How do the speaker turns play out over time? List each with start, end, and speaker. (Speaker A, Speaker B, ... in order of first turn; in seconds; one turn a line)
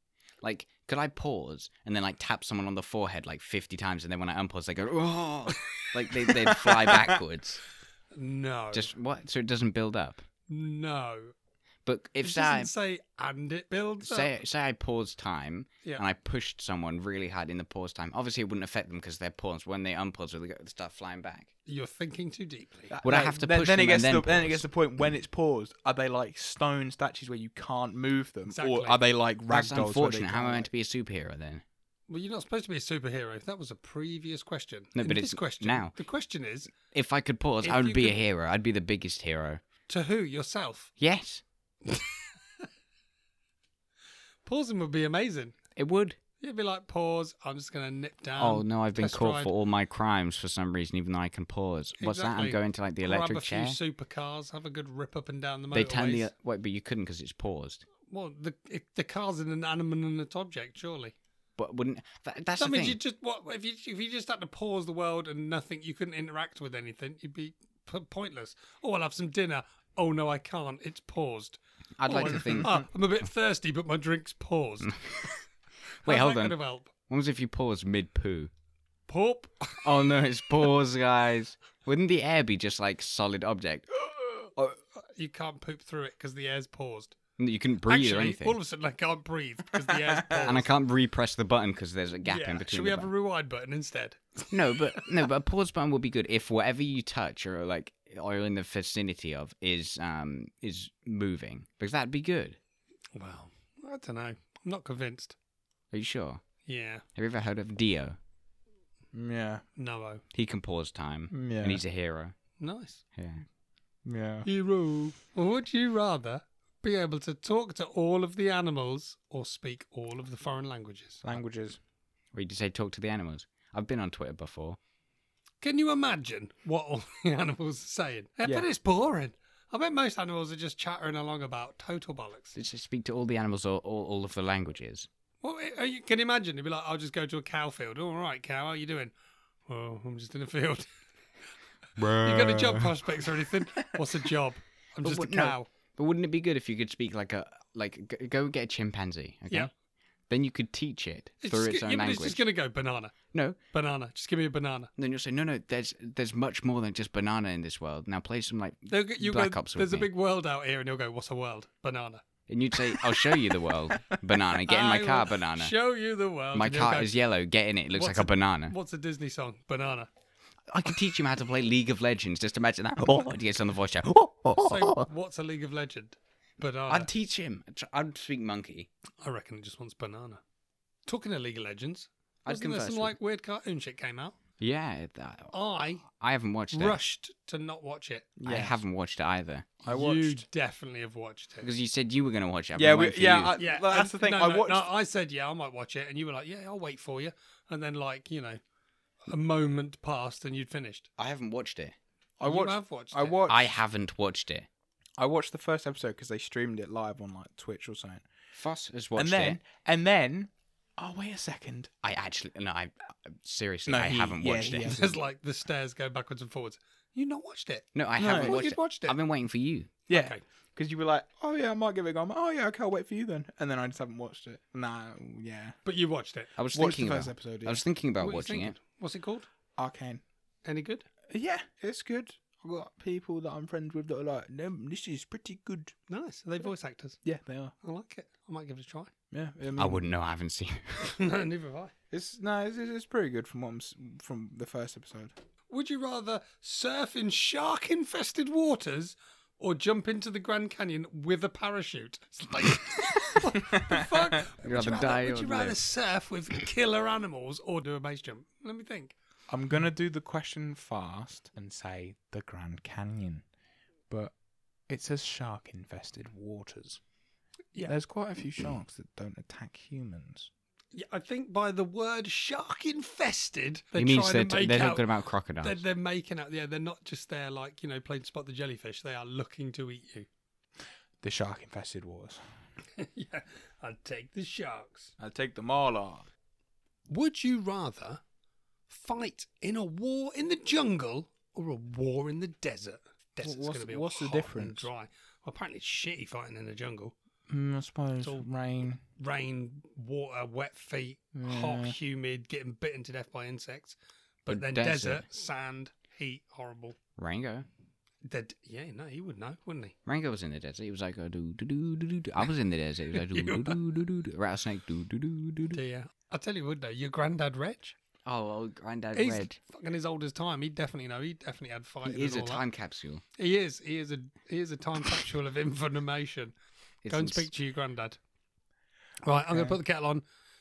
Speaker A: 0.4-7.6
Speaker B: 6.5-7.2
Speaker C: 8.1-8.9
Speaker A: 8.7-10.2
Speaker C: 10.5-11.3
Speaker A: 11.8-12.7
Speaker C: 12.2-14.3
Speaker A: 14.0-21.5
Speaker C: 21.6-22.9
Speaker B: 22.9-30.7
Speaker A: 23.0-24.6
Speaker C: 28.5-29.0
Speaker A: 29.5-31.6
Speaker C: 32.1-36.7
Speaker A: 34.9-35.9
Speaker A: 36.8-39.6
Speaker C: 37.6-38.2
Speaker C: 39.9-40.9
Speaker A: 41.0-41.4
Speaker C: 44.4-45.5
Speaker A: 45.8-46.2
Speaker C: 46.4-49.5
Speaker A: 48.4-53.8
Speaker C: 52.0-56.3
Speaker A: 55.7-57.8
Speaker C: 58.1-61.1
Speaker A: 61.6-63.0
Speaker C: 62.6-75.3
Speaker A: 72.0-72.8
Speaker B: 72.4-72.8
Speaker C: 76.0-76.9
Speaker A: 76.0-78.5
Speaker C: 79.1-79.8
Speaker A: 79.8-84.0
Speaker C: 85.0-87.2
Speaker A: 87.4-88.6
Speaker C: 87.9-90.7
Speaker B: 89.8-90.5
Speaker A: 90.4-93.1
Speaker C: 92.2-95.0
Speaker A: 94.5-102.6
Speaker C: 103.1-105.4
Speaker A: 105.9-106.4
Speaker C: 106.7-107.0
Speaker A: 107.2-108.2
Speaker B: 109.1-109.6
Speaker C: 109.8-110.2
Speaker A: 110.3-112.4
Speaker B: 111.3-111.8
Speaker C: 112.6-113.0
Speaker A: 113.2-113.4
Speaker B: 114.0-114.5
Speaker C: 114.4-121.4
Speaker B: 121.2-121.8
Speaker A: 122.3-124.8
Speaker C: 125.6-132.6
Speaker B: 128.4-128.7
Speaker A: 132.5-135.1
Speaker C: 135.4-139.1
Speaker C: 139.7-140.9
Speaker A: 142.0-142.5
Speaker C: 142.0-145.7
Speaker A: 145.0-149.7
Speaker A: 150.3-152.4
Speaker C: 151.4-153.2
Speaker A: 153.3-153.6
Speaker C: 153.7-154.9
Speaker A: 155.0-160.1
Speaker C: 158.9-162.2
Speaker A: 162.5-165.7
Speaker C: 164.7-167.2
Speaker A: 166.5-168.7
Speaker C: 167.9-170.1
Speaker A: 170.7-175.0
Speaker C: 174.6-177.1
Speaker A: 176.9-178.9
Speaker C: 179.2-180.4
Speaker C: 181.1-184.4
Speaker A: 182.4-183.1
Speaker A: 184.6-185.5
Speaker C: 185.5-186.0
Speaker A: 186.0-187.0
Speaker C: 186.7-188.3
Speaker B: 188.4-188.8
Speaker A: 188.4-189.7
Speaker B: 189.8-190.4
Speaker C: 189.9-191.7
Speaker A: 191.6-193.5
Speaker B: 192.7-194.9
Speaker C: 193.6-198.6
Speaker C: 199.3-201.1
Speaker A: 201.2-201.9
Speaker B: 202.4-203.7
Speaker C: 202.4-203.4
Speaker A: 203.5-204.7
Speaker B: 205.2-208.2
Speaker A: 208.5-209.6
Speaker B: 209.2-211.9
Speaker A: 212.0-214.9
Speaker B: 213.9-215.2
Speaker C: 214.8-219.2
Speaker A: 217.9-219.9
Speaker B: 218.2-218.6
Speaker C: 220.1-220.4
Speaker B: 220.1-225.8
Speaker C: 225.8-226.5
Speaker A: 226.6-228.8
Speaker B: 226.7-227.8
Speaker C: 228.2-229.5
Speaker B: 229.8-230.2
Speaker C: 230.6-231.1
Speaker B: 231.3-235.9
Speaker C: 236.1-237.2
Speaker B: 237.2-237.7
Speaker C: 237.8-239.1
Speaker B: 239.3-240.0
Speaker A: 239.8-241.0
Speaker C: 241.0-241.9
Speaker B: 242.1-245.3
Speaker C: 245.7-259.1
Speaker A: 254.6-255.8
Speaker B: 259.5-263.4
Speaker B: 264.9-267.0
Speaker B: 267.8-270.5
Speaker C: 270.9-275.1
Speaker A: 273.9-275.8
Speaker C: 275.6-280.3
Speaker B: 281.2-282.4
Speaker C: 283.0-285.1
Speaker B: 285.2-286.3
Speaker C: 287.1-288.2
Speaker C: 288.9-297.1
Speaker B: 293.4-294.9
Speaker B: 297.5-299.0
Speaker C: 299.2-306.9
Speaker B: 301.3-302.0
Speaker A: 304.5-305.2
Speaker A: 307.2-307.7
Speaker C: 308.2-309.9
Speaker A: 310.1-315.8
Speaker C: 313.1-313.8
Speaker C: 315.7-317.9
Speaker A: 318.2-319.6
Speaker C: 319.1-322.6
Speaker A: 322.0-323.2
Speaker C: 323.4-326.5
Speaker A: 327.0-327.5
Speaker C: 327.1-328.2
Speaker C: 329.2-330.2
Speaker B: 329.5-329.8